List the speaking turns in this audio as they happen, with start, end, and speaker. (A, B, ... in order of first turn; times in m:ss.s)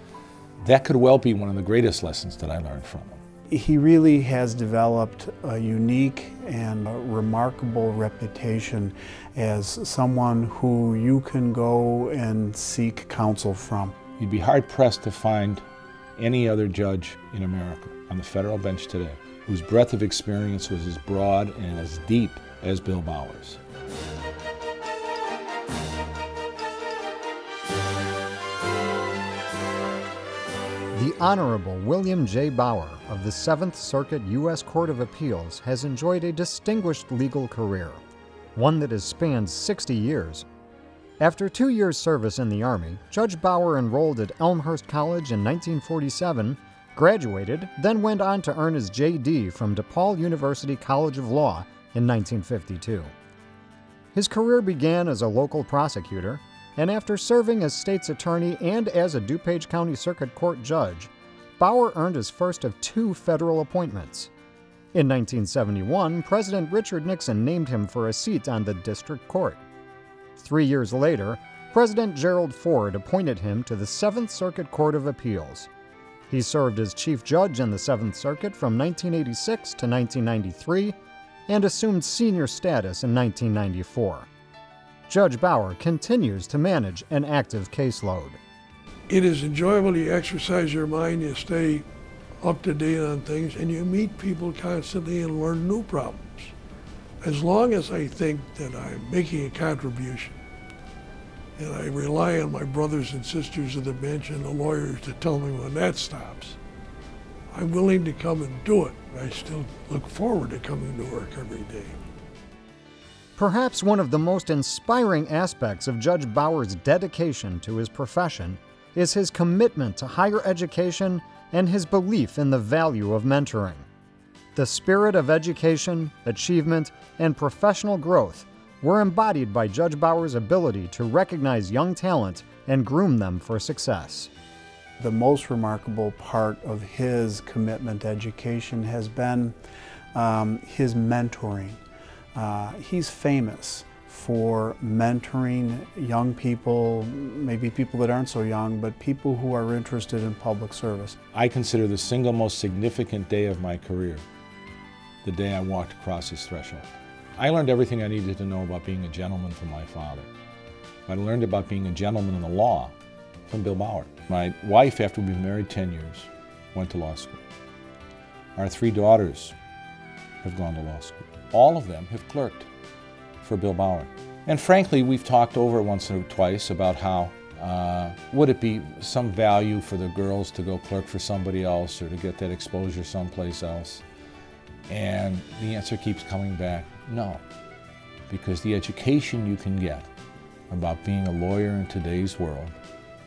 0:00.6-0:03.2 A
0:03.5-0:14.0 B
0:14.2-0:15.6 A
0:16.2-0:23.6 A
0:30.9-0:38.0 C
0:38.6-0:40.4 C
0:41.2-0:53.1 C
0:54.1-1:04.3 C
1:04.9-1:09.6 C
1:10.4-1:15.7 C
1:16.3-1:21.0 C
1:21.5-1:24.3 C
1:25.1-1:28.4 C
1:29.1-1:31.9 D
1:32.4-1:36.5 D
1:37.2-1:40.4 D
1:41.6-1:46.6 D
1:47.5-1:52.0 D
1:53.4-2:03.9 C
2:04.5-2:14.3 C
2:15.0-2:19.6 B
2:20.1-2:21.8 B
2:22.3-2:31.2 B
2:31.3-2:34.2 A
2:35.2-2:40.3 A
2:41.1-2:42.9 A
2:43.5-2:47.4 A
2:48.6-2:49.6 A
2:50.4-2:52.7 A
2:53.4-3:04.0 A
3:04.9-3:07.4 A
3:08.3-3:10.1 A
3:10.7-3:12.8 A